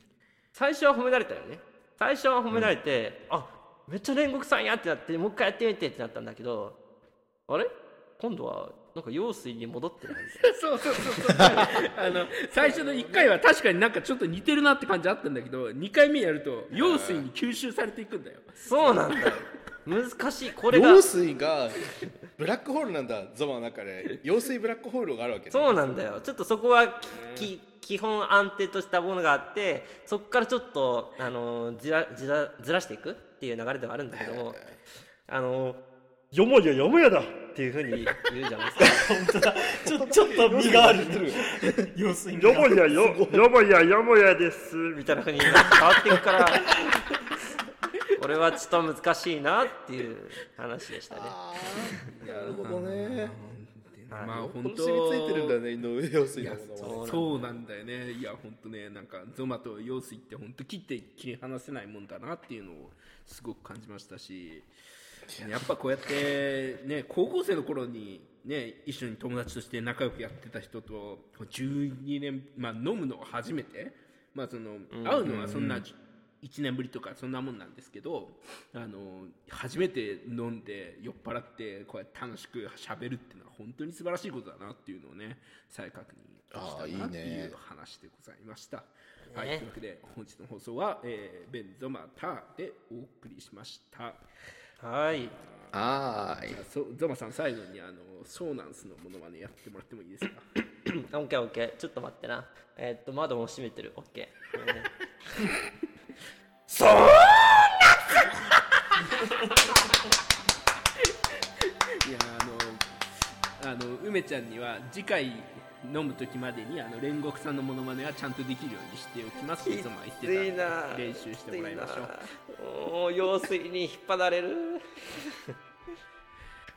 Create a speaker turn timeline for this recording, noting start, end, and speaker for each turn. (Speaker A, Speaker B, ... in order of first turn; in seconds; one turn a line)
Speaker A: 0.5-6.8
Speaker A: 7.5-10.5
Speaker B: 10.4-19.3
Speaker A: 12.6-13.2
Speaker C: 16.7-17.2
Speaker A: 18.6-21.1
Speaker C: 20.7-21.8
Speaker C: 22.4-26.2
Speaker A: 25.5-34.6
Speaker B: 27.0-27.5
Speaker C: 34.1-34.6
Speaker A: 35.3-35.8
Speaker A: 36.3-39.0
Speaker D: 38.8-43.1
Speaker C: 39.9-41.7
Speaker A: 42.4-46.8
Speaker C: 42.5-43.5
Speaker A: 48.1-51.4
Speaker C: 51.1-53.4
Speaker B: 52.1-55.6
Speaker A: 54.1-54.6
Speaker C: 54.6-57.2
Speaker B: 56.4-64.7
Speaker A: 56.8-57.5
Speaker B: 65.3-94.2
Speaker A: 74.9-75.3
Speaker C: 75.2-75.8
Speaker C: 86.5-87.5
Speaker A: 89.2-89.6
Speaker A: 94.8-95.3
Speaker B: 95.4-95.7
Speaker C: 95.7-96.6
Speaker B: 96.5-100.5
Speaker A: 100.9-104.9
Speaker A: 106.7-108.0
Speaker B: 111.6-122.2
Speaker A: 119.6-125.2